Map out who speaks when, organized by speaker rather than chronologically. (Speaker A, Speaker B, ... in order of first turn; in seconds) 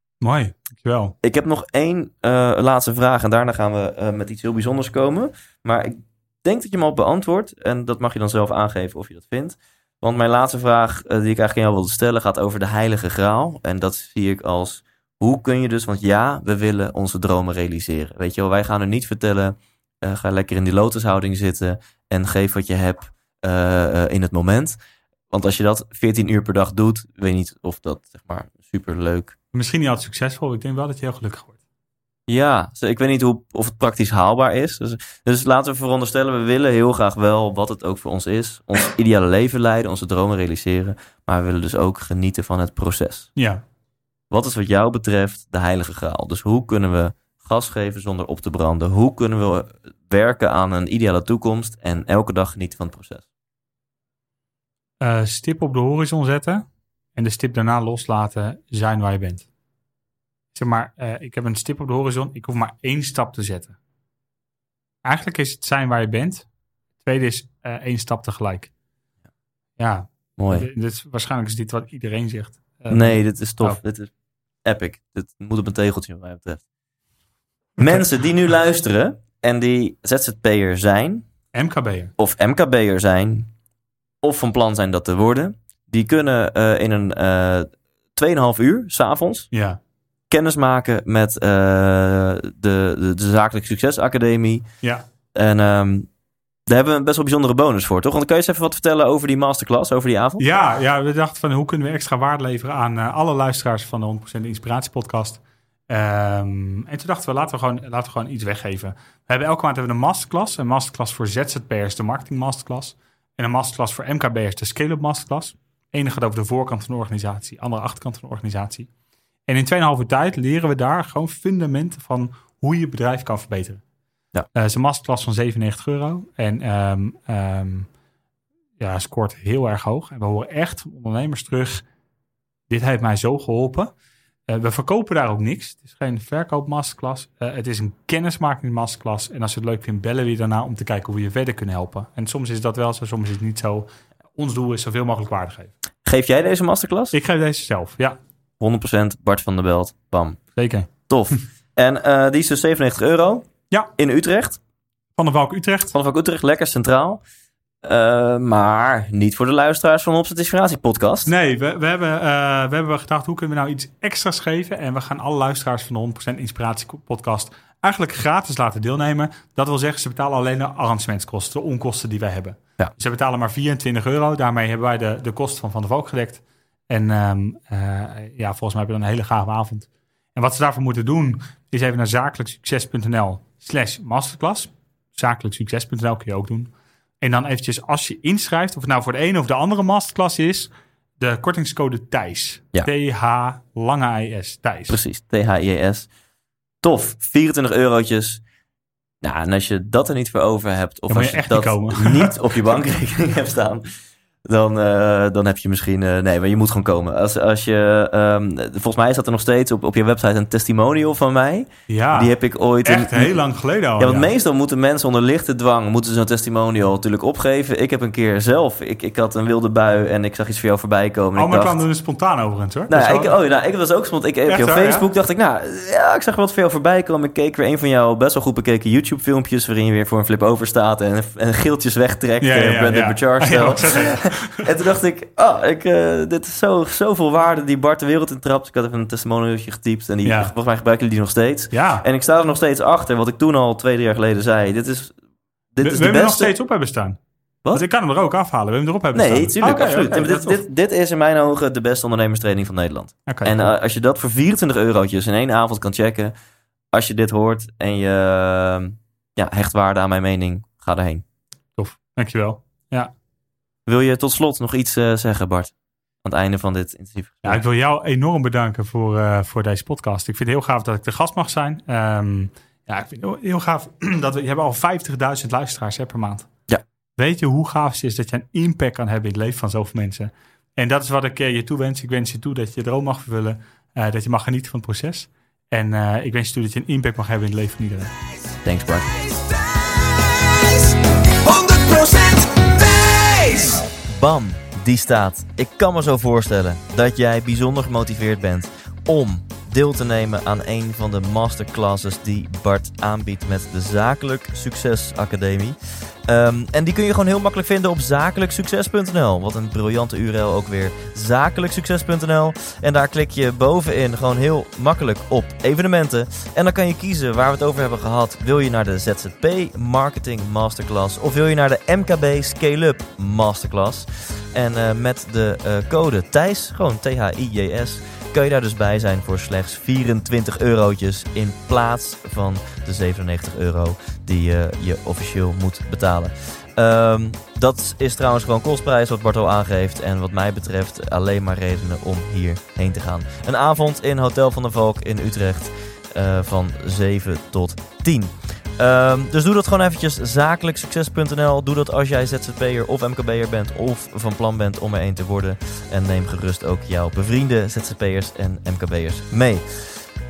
Speaker A: 0.2-1.1, 29.5-31.6, 43.4-43.6, 55.0-59.5, 60.5-63.8, 65.0-66.5, 67.0-68.7, 69.8-73.8, 81.5-82.1, 89.5-89.8, 100.4-118.9, 119.5-123.8, 124.5-127.9, 128.8-131.8, 132.7-133.9, 134.5-145.7, 147.1-148.2, 150.6-151.4, 155.2-155.9, 161.3-195.0, 201.1-202.4, 211.9-214.3, 221.3-223.3, 224.5-225.1, 232.4-234.7, 240.2-240.5, 241.7-242.1, 245.8-247.2, 247.7-250.6, 253.3-253.6, 261.8-263.1, 267.4-276.5, 277.2-288.1
Speaker B: 1.2-24.8, 25.3-29.4, 32.3-43.3, 44.3-53.3, 70.4-70.7, 72.9-74.1, 74.6-76.6, 77.8-81.3, 82.2-83.5, 84.2-89.5, 90.3-94.6, 95.3-96.1, 96.7-100.4, 146.1-147.1, 148.6-150.4, 151.1-154.6, 155.9-157.2, 157.8-161.3, 194.9-196.1, 196.8-198.4, 199.2-203.8, 204.4-213.4, 214.0-221.8, 222.9-245.1, 245.7-246.5, 249.1-256.3, 256.9-261.2, 263.9-265.7, 266.2-267.6, 288.6-289.1, 294.1-360.0
Speaker C: 288.9-293.9